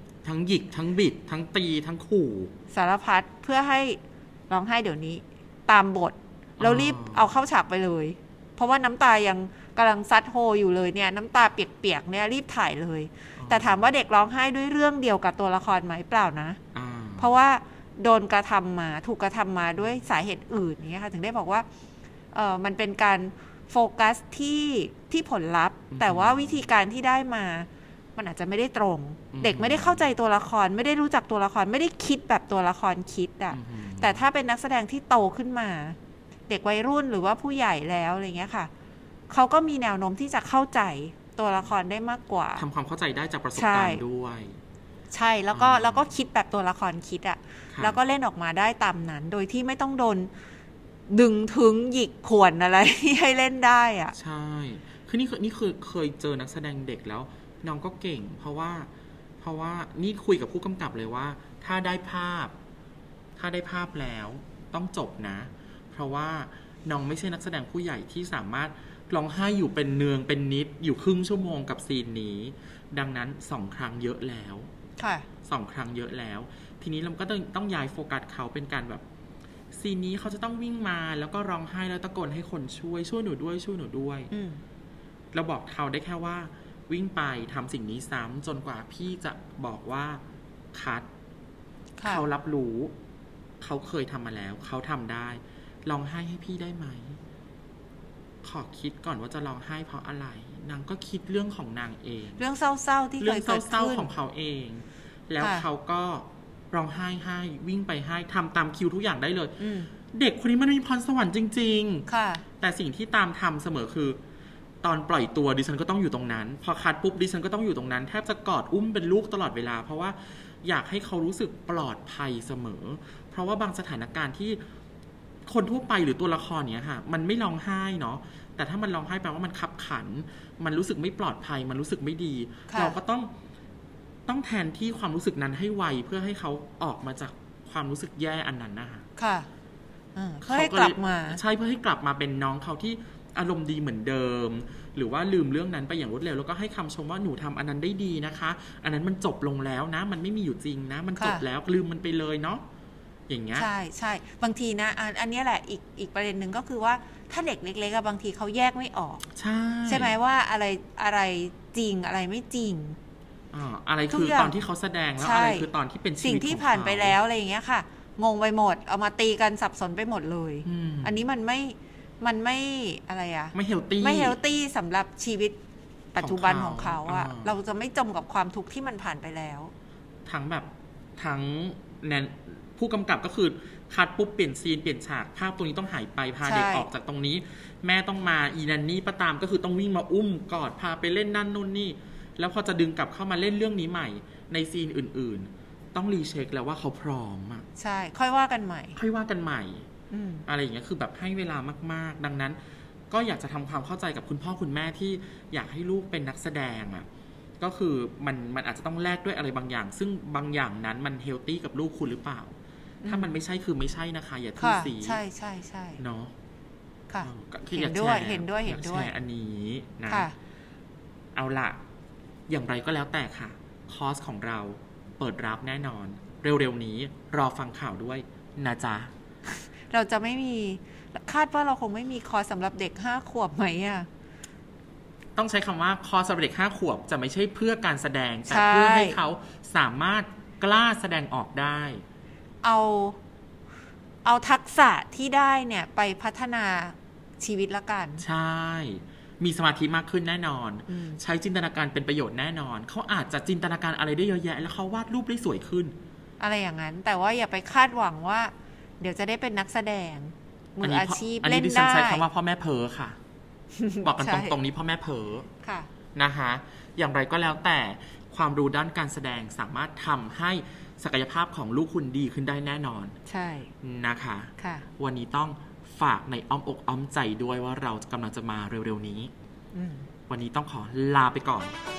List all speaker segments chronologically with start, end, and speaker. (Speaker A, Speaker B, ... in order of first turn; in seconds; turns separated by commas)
Speaker A: 0.2-2.5, Speaker B: 2.7-16.6, Speaker A: 6.6-7.3, Speaker A: 13.4-13.9, Speaker A: 16.7-17.3, Speaker B: 17.2-21.7, Speaker B: 22.3-36.0, Speaker A: 25.9-26.6, Speaker A: 29.3-30.0, Speaker A: 33.5-34.2, Speaker B: 36.5-38.7, Speaker B: 39.3-42.6, Speaker A: 42.6-44.6, Speaker B: 43.5-44.0, Speaker B: 45.1-50.3, Speaker A: 45.5-46.1, Speaker A: 47.7-48.0, Speaker B: 51.1-54.2, Speaker A: 54.1-58.9, Speaker A: 59.4-62.5, Speaker A: 63.4-74.7, Speaker B: 75.0-75.3, Speaker A: 75.5-79.0, Speaker A: 79.7-84.3, Speaker B: 84.3-84.6, Speaker A: 85.3-90.2, Speaker A: 90.7-91.1, Speaker B: 92.0-92.3, Speaker A: 92.0-92.9, Speaker A: 93.6-97.2, Speaker A: 98.4-102.4, Speaker B: 102.4-104.1, Speaker A: 103.2-109.6, Speaker B: 105.4-105.7, Speaker B: 109.6-109.9, Speaker A: 110.1-112.1, Speaker B: 112.1-112.4, Speaker A: 112.6-114.2, Speaker A: 114.8-124.6, Speaker A: 125.5-133.3, Speaker B: 132.7-133.0, Speaker A: 134.3-139.1, Speaker B: 139.2-139.5, Speaker B: 140.2-141.4, Speaker A: 140.4-152.6, Speaker B: 151.2-151.4, Speaker A: 153.3-153.7, Speaker B: 153.6-159.2, Speaker A: 159.4-160.2, Speaker B: 159.9-163.0, Speaker A: 163.5-167.2, Speaker B: 164.1-164.6, Speaker B: 165.2-165.7, Speaker B: 166.2-175.6, Speaker A: 170.7-171.2, Speaker A: 173.6-174.4, Speaker B: 176.1-179.7, Speaker A: 176.2-177.5, Speaker A: 180.2-197.7, Speaker B: 186.4-186.9, Speaker B: 197.8-199.0, Speaker A: 199.0-199.9, Speaker B: 200.1-200.5, Speaker A: 200.5-202.6, Speaker A: 203.1-207.1, Speaker A: 207.6-215.2, Speaker B: 213.0-213.4, Speaker B: 214.6-216.0, Speaker A: 216.0-216.3, Speaker B: 217.1-219.1, Speaker A: 217.2-220.3, Speaker B: 220.1-220.3, Speaker A: 221.3-221.8, Speaker A: 222.5-229.1, Speaker B: 229.5-234.1, Speaker A: 235.4-242.0, Speaker B: 238.5-239.2, Speaker B: 242.6-243.2, Speaker B: 244.2-248.2, Speaker A: 248.2-255.9, Speaker B: 250.9-251.2, Speaker B: 256.4-262.2, Speaker A: 260.8-263.2, Speaker B: 263.8-264.6, Speaker A: 264.0-265.5, Speaker B: 265.6-265.9, Speaker A: 266.1-273.1, Speaker B: 273.3-273.7, Speaker A: 273.8-279.3, Speaker B: 274.6-274.9, Speaker B: 279.7-280.1, Speaker A: 280.3-281.8